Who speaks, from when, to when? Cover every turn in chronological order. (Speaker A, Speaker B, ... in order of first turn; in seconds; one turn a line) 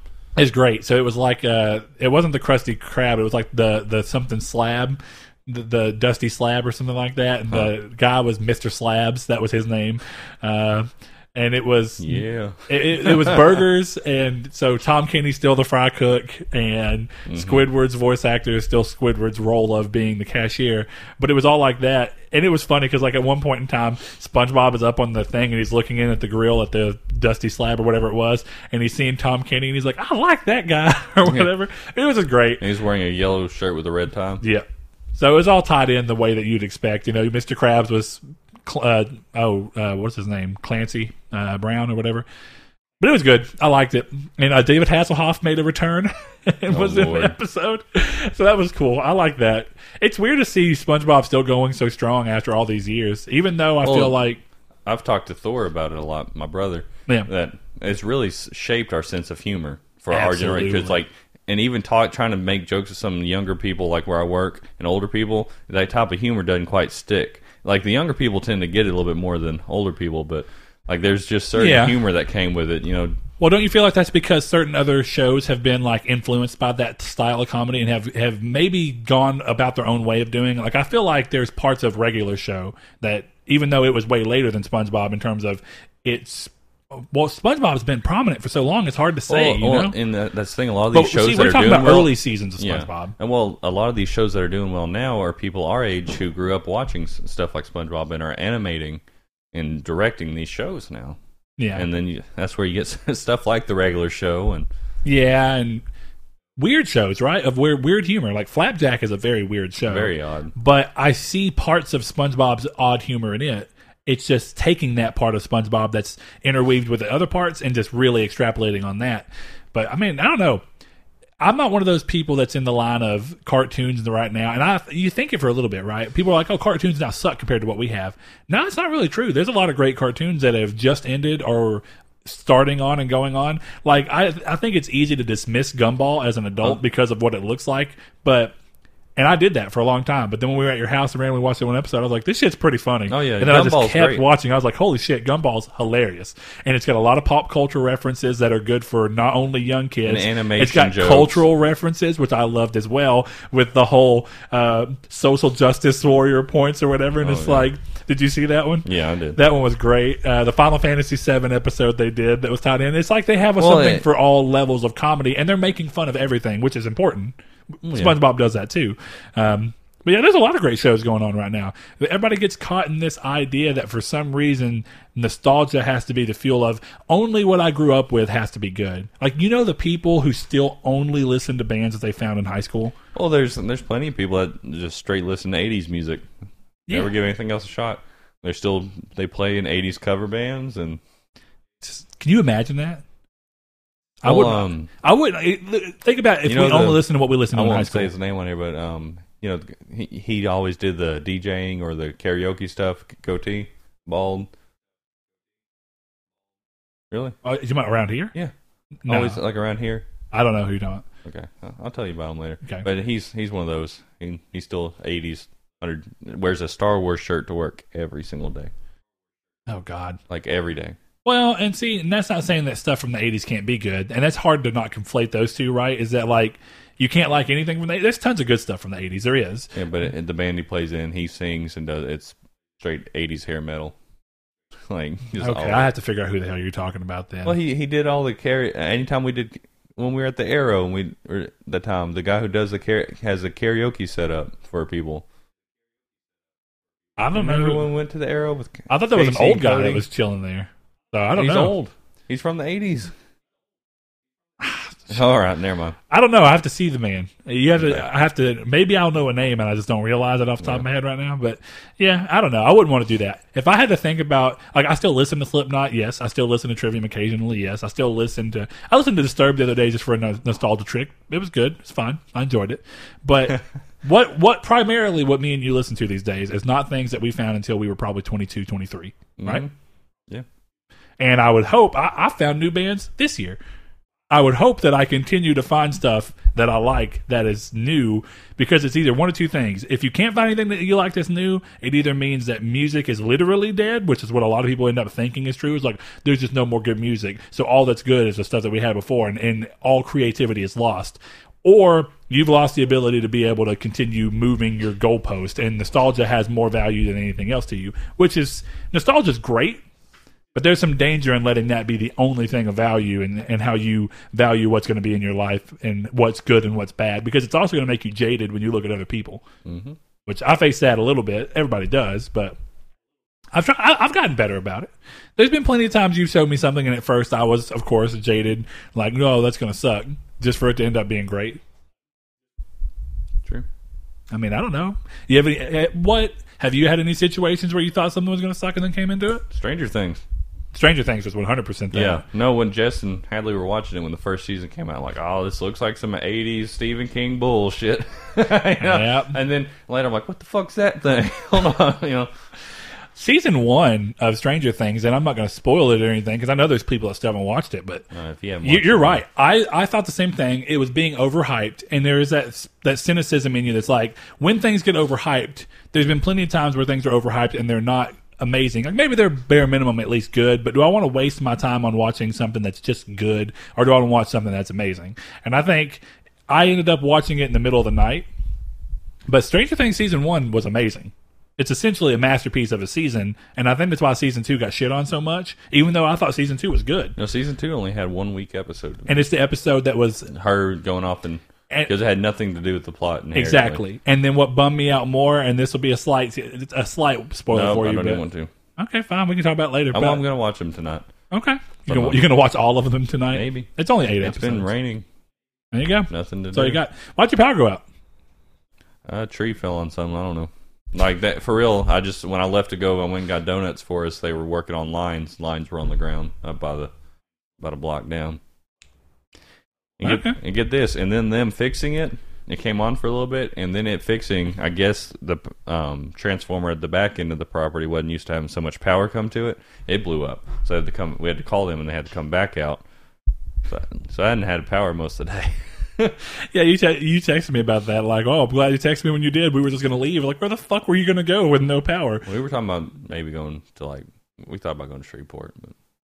Speaker A: 0.4-32.6
Speaker B: 12.0-13.6
Speaker B: 17.3-17.6
Speaker B: 32.6-34.4
Speaker A: 34.4-42.2
Speaker A: 43.0-54.4
Speaker B: 46.7-47.4
Speaker B: 53.8-54.2
Speaker B: 54.9-73.2
Speaker A: 60.1-61.0
Speaker A: 71.6-72.0
Speaker A: 73.4-90.0
Speaker B: 89.3-99.0
Speaker A: 90.9-93.2
Speaker B: 99.5-101.2
Speaker A: 101.6-101.8
Speaker B: 101.8-104.7
Speaker A: 105.0-105.8
Speaker A: 106.6-120.6
Speaker B: 109.8-110.5
Speaker A: 121.4-138.5
Speaker A: 139.2-167.3
Speaker B: 143.1-144.2
Speaker B: 150.1-151.4
Speaker B: 157.2-157.7
Speaker B: 158.9-159.4
Speaker B: 163.6-164.1
Speaker B: 167.8-168.2
Speaker A: 167.9-183.0
Speaker B: 183.2-186.2
Speaker B: 186.9-191.0
Speaker A: 191.8-193.0
Speaker A: 194.2-198.1
Speaker B: 194.2-194.9
Speaker B: 196.5-204.5
Speaker B: 207.1-207.4
Speaker A: 207.4-208.3
Speaker A: 209.1-209.4
Speaker B: 209.1-210.1
Speaker A: 210.3-211.1
Speaker B: 211.2-218.7
Speaker A: 219.7-220.2
Speaker B: 220.3-221.0
Speaker A: 221.2-229.8
Speaker B: 229.8-233.9
Speaker B: 234.9-235.9
Speaker A: 235.4-237.6
Speaker B: 237.4-245.2
Speaker A: 247.2-247.8
Speaker B: 247.3-250.0
Speaker A: 248.9-251.7
Speaker B: 251.3-253.1
Speaker A: 254.6-254.9
Speaker B: 255.1-256.0
Speaker A: 256.1-279.6
Speaker B: 257.8-258.1
Speaker B: 279.4-279.7
Speaker A: 281.2-283.6
Speaker A: 284.3-309.8
Speaker A: 310.6-319.4
Speaker B: 319.7-320.0
Speaker A: 320.3-322.6
Speaker A: 323.5-331.6
Speaker A: 334.3-339.4
Speaker B: 339.5-340.2
Speaker A: 340.7-342.2
Speaker B: 341.9-352.3
Speaker A: 348.8-349.4
Speaker A: 353.2-358.1
Speaker B: 358.1-359.2
Speaker A: 358.6-378.3
Speaker A: 379.3-387.1
Speaker B: 387.2-389.2
Speaker A: 389.1-390.3
Speaker B: 390.3-393.8
Speaker A: 393.4-398.2
Speaker B: 397.5-398.5
Speaker A: 398.8-400.2
Speaker B: 399.9-401.1
Speaker A: 401.3-404.7
Speaker B: 401.9-402.2
Speaker B: 403.3-403.7
Speaker B: 404.2-405.1
Speaker A: 405.7-407.8
Speaker B: 406.1-406.8
Speaker B: 409.1-416.9
Speaker B: 417.6-418.4
Speaker B: 420.0-432.8
Speaker A: 420.0-420.4
Speaker B: 433.7-436.2
Speaker A: 436.5-442.2
Speaker B: 442.3-445.8